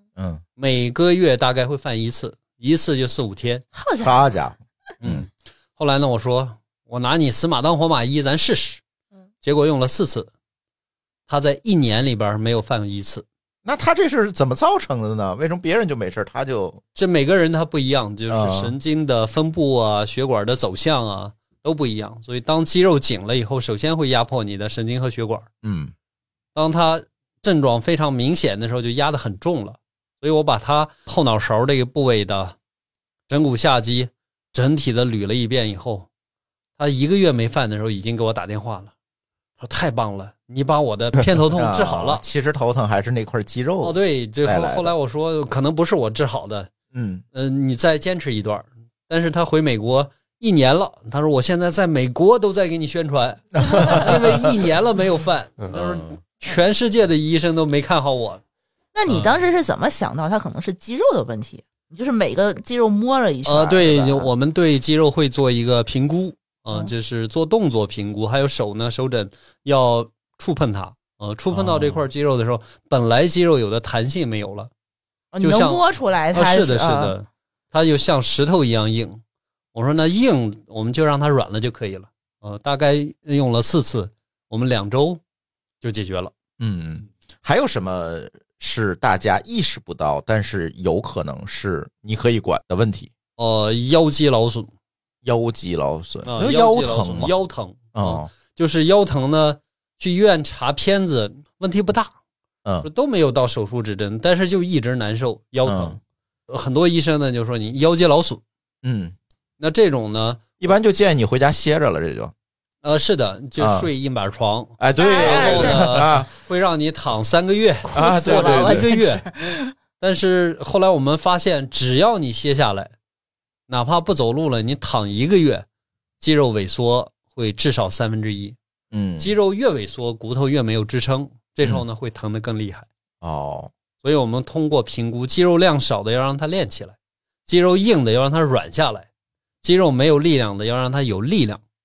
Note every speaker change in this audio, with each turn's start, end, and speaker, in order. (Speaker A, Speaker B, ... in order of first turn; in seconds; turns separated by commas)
Speaker A: 0.2-0.4, Speaker B: 0.6-3.6, Speaker C: 3.7-4.2, Speaker A: 4.0-5.2, Speaker B: 5.0-8.8, Speaker B: 9.4-10.3, Speaker B: 11.3-13.2, Speaker A: 13.6-16.8, Speaker B: 16.9-25.5, Speaker A: 18.3-18.8, Speaker A: 25.6-25.9, Speaker B: 26.5-32.5, Speaker B: 33.3-36.1, Speaker B: 36.8-38.9, Speaker B: 39.6-42.2, Speaker A: 41.5-44.9, Speaker B: 43.8-46.7, Speaker A: 46.9-47.2, Speaker B: 47.3-58.4, Speaker A: 53.6-54.4, Speaker C: 58.9-64.3, Speaker B: 59.1-59.4, Speaker B: 63.4-74.7, Speaker A: 71.5-72.0, Speaker C: 75.3-77.1, Speaker B: 75.4-79.2, Speaker B: 79.7-85.2, Speaker B: 85.8-86.3, Speaker A: 86.6-93.1, Speaker B: 93.4-94.7, Speaker A: 95.2-97.3, Speaker B: 96.2-102.1, Speaker A: 97.9-98.3, Speaker B: 102.8-108.4, Speaker A: 105.6-106.0, Speaker A: 108.8-109.1, Speaker B: 109.6-110.6, Speaker A: 110.6-112.3, Speaker B: 112.8-122.9, Speaker A: 113.6-113.9, Speaker A: 114.8-116.3, Speaker C: 115.0-115.8, Speaker C: 117.8-119.7, Speaker A: 117.9-118.9, Speaker B: 123.7-125.6, Speaker B: 126.2-128.6, Speaker A: 128.9-129.3, Speaker B: 129.2-132.9, Speaker A: 133.2-133.7, Speaker B: 134.0-136.9, Speaker B: 137.5-139.1, Speaker B: 139.6-141.6